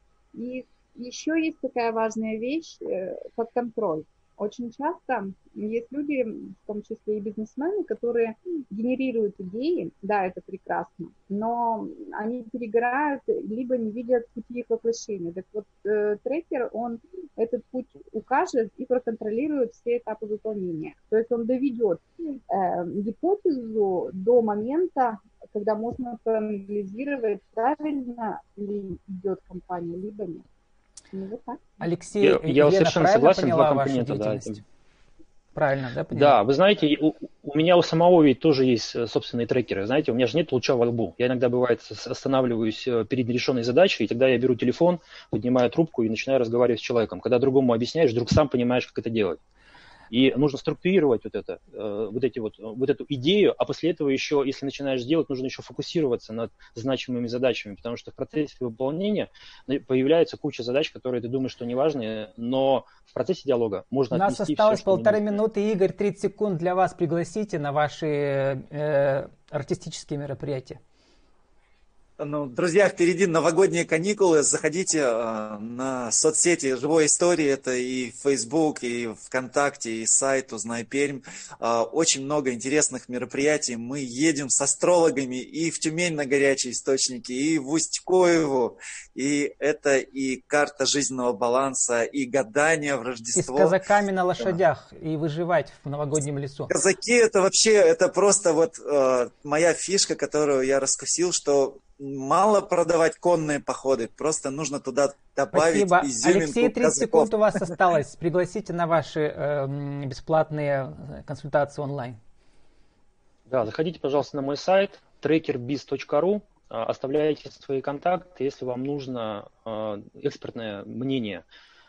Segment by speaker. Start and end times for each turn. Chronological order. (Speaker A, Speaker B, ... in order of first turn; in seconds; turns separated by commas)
Speaker A: 0.3-30.4, Speaker A: 31.1-31.6, Speaker B: 31.8-34.6, Speaker C: 32.2-34.6, Speaker B: 35.5-36.4, Speaker C: 36.1-49.4, Speaker C: 50.1-65.4, Speaker B: 64.1-70.8, Speaker D: 72.2-93.7, Speaker B: 93.3-96.7, Speaker D: 96.7-107.3, Speaker B: 105.5-112.2, Speaker C: 113.5-121.4